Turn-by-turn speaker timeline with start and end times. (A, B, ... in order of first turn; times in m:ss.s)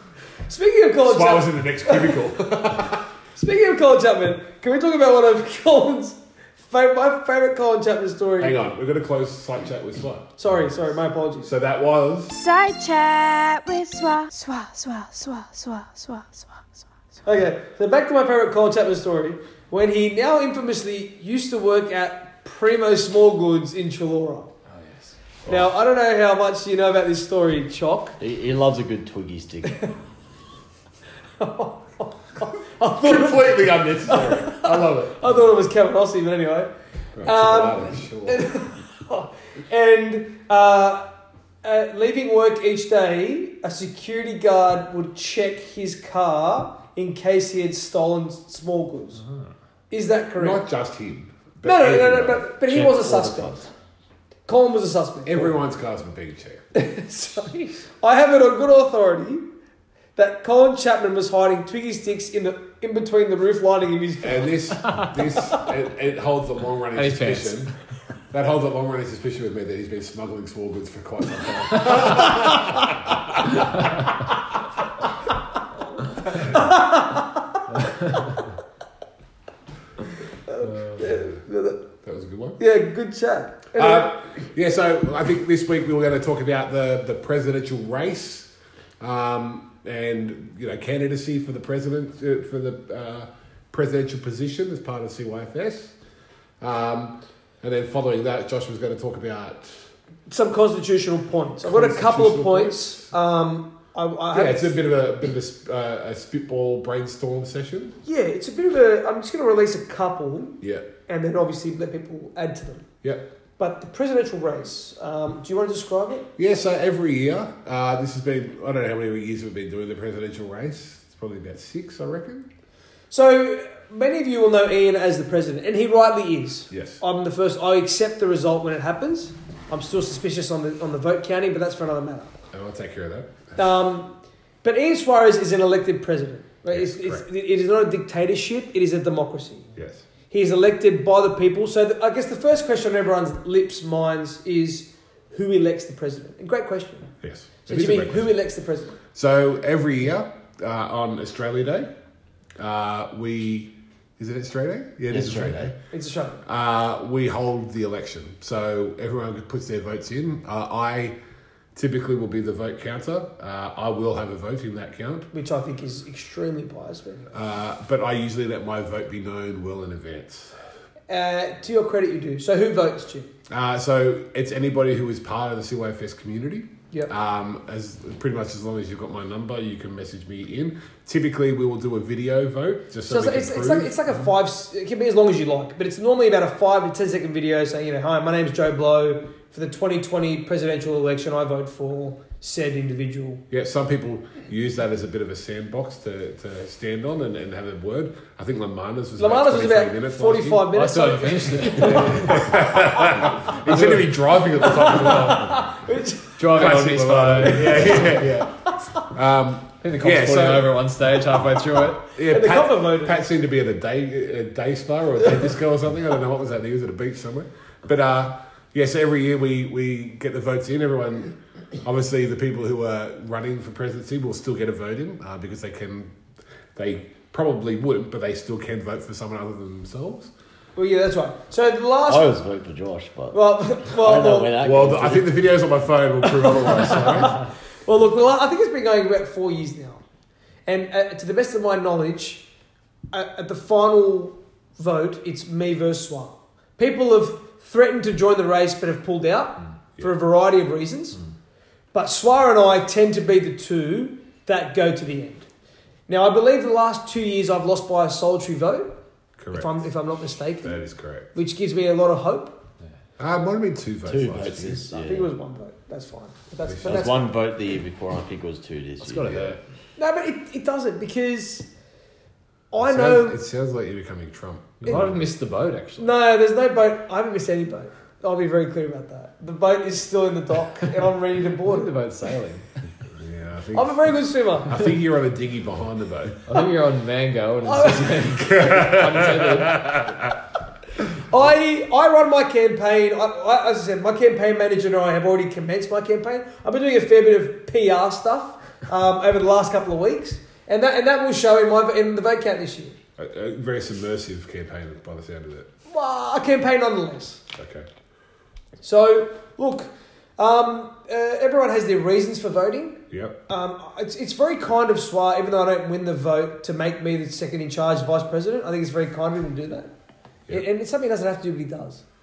0:00.5-0:02.3 A
0:01.0-0:03.0 B
0:03.4-0:08.6 A
0:08.4-0:10.4 B
0:10.4-0:11.5 A
0:11.4-0:12.4 B
0:12.3-0:16.6 C
0:17.2-0:24.5 A
0:24.7-0:25.1 D
0:25.5-0:28.2 A
0:28.2-0:29.9 E
0:31.4-0:36.7 A
0:33.0-0:35.2 B
0:37.2-0:38.5 B
0:37.2-0:41.1 A
0:41.6-0:49.2 A
0:49.9-0:50.6 A
0:50.4-0:52.4 B
0:51.6-0:53.6 A
0:52.6-0:53.7 E
0:54.5-0:55.6 A
0:55.2-0:56.6 B
0:56.7-0:59.5 A
1:00.2-1:04.6 A
1:04.2-1:07.7 B
1:07.0-1:07.7 D
1:08.3-1:13.4 B
1:16.4-1:17.6 A
1:17.9-1:18.3 D
1:20.5-1:21.9 A
1:22.0-1:22.6 B
1:22.6-1:24.2 A
1:23.7-1:36.0 B
1:36.6-1:39.9 B
1:40.3-1:44.8 A
1:41.6-1:43.0 B
1:44.3-1:48.0 B
1:48.0-1:52.9 A
1:50.6-1:50.9 B
1:53.6-1:56.3 A
1:56.4-2:02.5 B
2:03.1-2:12.3 A
2:06.7-2:07.0 B
2:12.5-2:13.6 B
2:13.6-2:19.7 A
2:16.7-2:17.2 B
2:19.8-2:20.0 B
2:20.3-2:27.1 A
2:27.2-2:28.3 B
2:27.7-2:29.0 A
2:29.1-2:31.9 B
2:32.6-2:35.8 B
2:35.1-2:35.7 E
2:35.9-2:36.4 A
2:36.4-2:41.2 B
2:41.8-2:45.3 B
2:45.3-2:47.3 A
2:47.3-2:50.6 B
2:51.1-2:53.3 A
2:53.5-3:04.1 B
3:03.1-3:13.4 A
3:13.5-3:20.8 B
3:19.2-3:22.4 A
3:20.7-3:22.5 D
3:21.8-3:25.7 B
3:23.6-3:24.2 D
3:24.6-3:26.4 A
3:26.4-3:28.5 D
3:26.4-3:28.5 B
3:27.4-3:28.0 A
3:28.6-3:29.1 A
3:29.1-3:30.8 B
3:29.8-3:32.0 D
3:32.2-3:46.2 B
3:32.3-3:33.2 A
3:46.8-3:50.3 B
3:50.8-3:52.4 A
3:52.1-3:55.4 E
3:53.3-3:54.5 A
3:54.6-3:57.4 B
3:56.2-4:00.0 A
4:00.7-4:02.5 A
4:03.1-4:11.2 A
4:11.9-4:15.5 A
4:16.1-4:19.0 A
4:19.4-4:19.9 B
4:19.5-4:20.8 A
4:20.6-4:21.3 B
4:21.3-4:22.6 A
4:23.2-4:24.8 B
4:24.1-4:25.3 E
4:24.9-4:27.3 A
4:26.6-4:27.1 B
4:26.8-4:29.6 E
4:29.0-4:29.6 D
4:30.0-4:31.7 A
4:32.7-4:33.4 A
4:32.8-4:35.3 B
4:34.8-4:36.1 D
4:36.0-4:41.9 A
4:41.7-4:42.7 D
4:43.2-4:44.2 B
4:43.7-4:44.9 A
4:44.7-4:46.4 B
4:46.5-4:50.1 D
4:47.6-4:48.4 A
4:48.4-4:50.1 B
4:51.2-5:03.0 A
5:03.2-5:05.7 B
5:05.9-5:07.4 A
5:07.6-5:07.9 B
5:08.8-5:19.9 A
5:13.1-5:13.4 B
5:20.5-5:22.0 A